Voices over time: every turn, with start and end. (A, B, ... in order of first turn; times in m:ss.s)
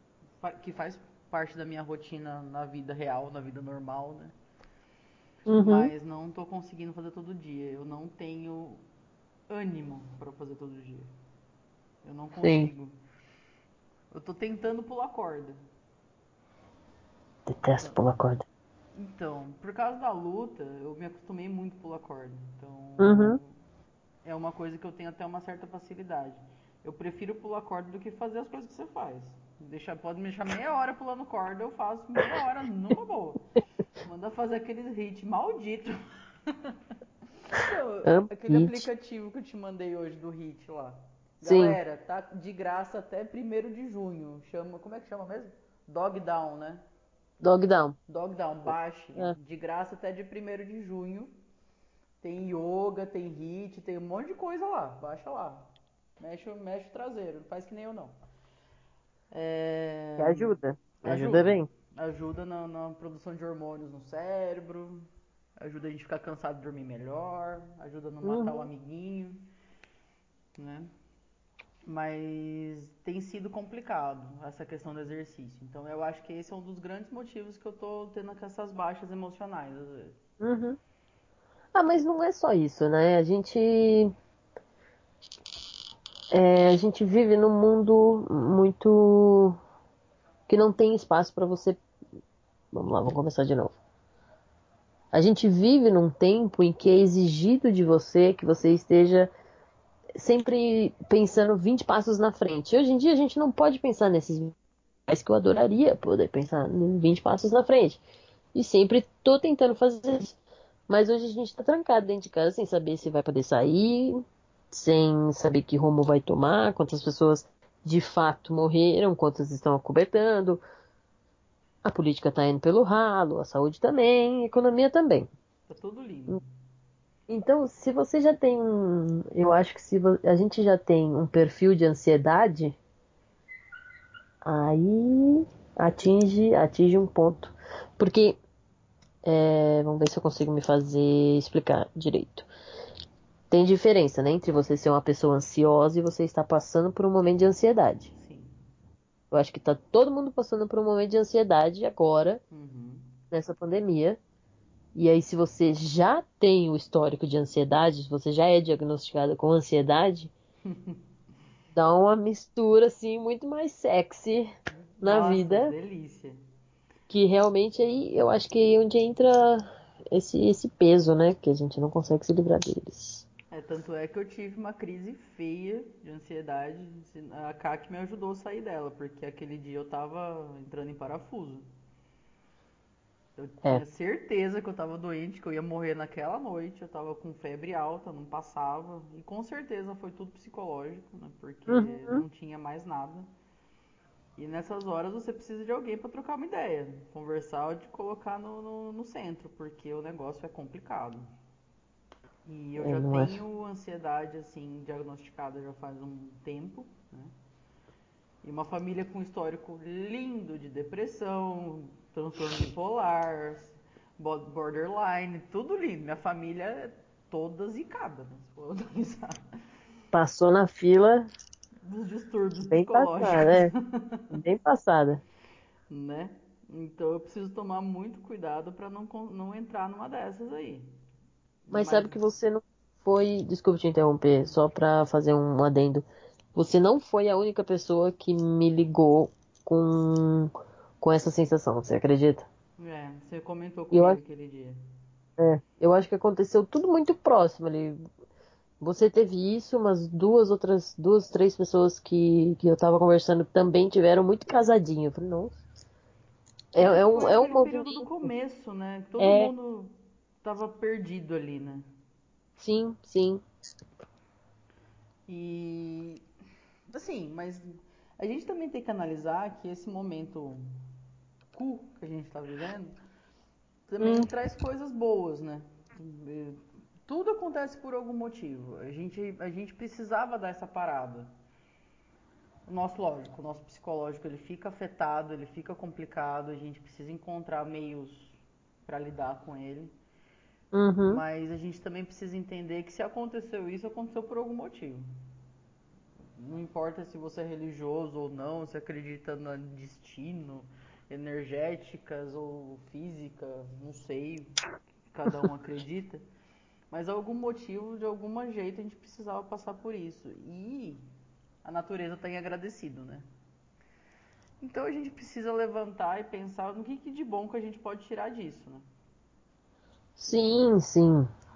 0:00.4-0:04.3 A
0:05.5-0:08.8 A
0:05.5-0:05.9 B
0:09.5-0:11.1 A
0:12.0-0:12.9 A
0:12.4-0:12.7 B
0:14.1-0:15.6 A
0:17.4-0:18.4 B
0:18.9-0:23.5 A
0:23.0-0:23.4 B
0:24.2-0:33.5 A
0:34.0-0:36.0 A
0:37.5-0:46.8 A
0:38.0-0:38.8 B
0:41.4-0:41.8 B
0:47.4-0:48.0 B
0:48.1-0:51.3 A
0:52.2-0:58.2 A
0:59.3-1:05.0 A
1:00.2-1:01.7 B
1:05.6-1:09.5 A
1:08.2-1:08.7 B
1:10.6-1:10.9 A
1:11.8-1:20.2 A
1:20.4-1:20.8 B
1:21.7-1:24.1 B
1:26.3-1:29.6 B
1:30.5-1:31.8 B
1:32.7-1:33.7 B
1:35.1-1:39.3 B
1:40.2-1:44.5 B
1:45.1-1:48.0 B
1:48.5-1:50.4 B
1:50.9-1:54.2 B
1:54.7-2:00.6 B
2:01.8-2:05.3 B
2:05.7-2:06.5 A
2:07.3-2:12.8 B
2:14.4-2:18.4 B
2:19.2-2:22.5 B
2:23.5-2:28.1 B
2:28.1-2:28.5 A
2:29.3-2:32.4 B
2:32.5-2:33.1 A
2:33.3-2:34.2 B
2:34.9-2:40.3 B
2:40.6-2:41.0 A
2:41.7-2:44.5 B
2:45.0-2:46.4 A
2:45.0-2:45.7 B
2:47.1-2:53.2 B
2:53.5-3:01.6 A
3:03.4-3:13.3 A
3:11.7-3:12.2 B
3:14.4-3:21.2 A
3:22.4-3:27.3 A
3:22.8-3:23.4 B
3:28.4-3:39.4 A
3:40.1-3:41.3 B
3:41.8-3:44.4 A
3:42.7-3:43.7 B
3:44.3-3:45.2 B
3:45.9-3:50.9 A
3:51.6-3:52.2 A
3:51.7-4:02.5 B
4:02.8-4:04.8 A
4:03.9-4:04.2 B
4:05.4-4:08.0 B
4:08.8-4:15.6 B
4:16.7-4:18.3 B
4:16.8-4:19.9 A
4:19.2-4:19.5 B
4:20.4-4:21.8 A
4:22.6-4:23.4 B
4:25.3-4:26.2 A
4:26.9-4:27.6 A
4:28.2-4:30.6 A
4:31.5-4:33.0 A
4:33.9-4:41.3 A
4:34.0-4:34.3 B
4:42.7-4:49.9 A
4:50.7-4:51.2 B
4:51.1-4:55.0 A
4:56.4-5:04.5 A
5:05.1-5:06.2 A
5:06.9-5:11.0 A
5:11.6-5:13.2 A
5:14.6-5:18.9 A
5:20.2-5:21.3 B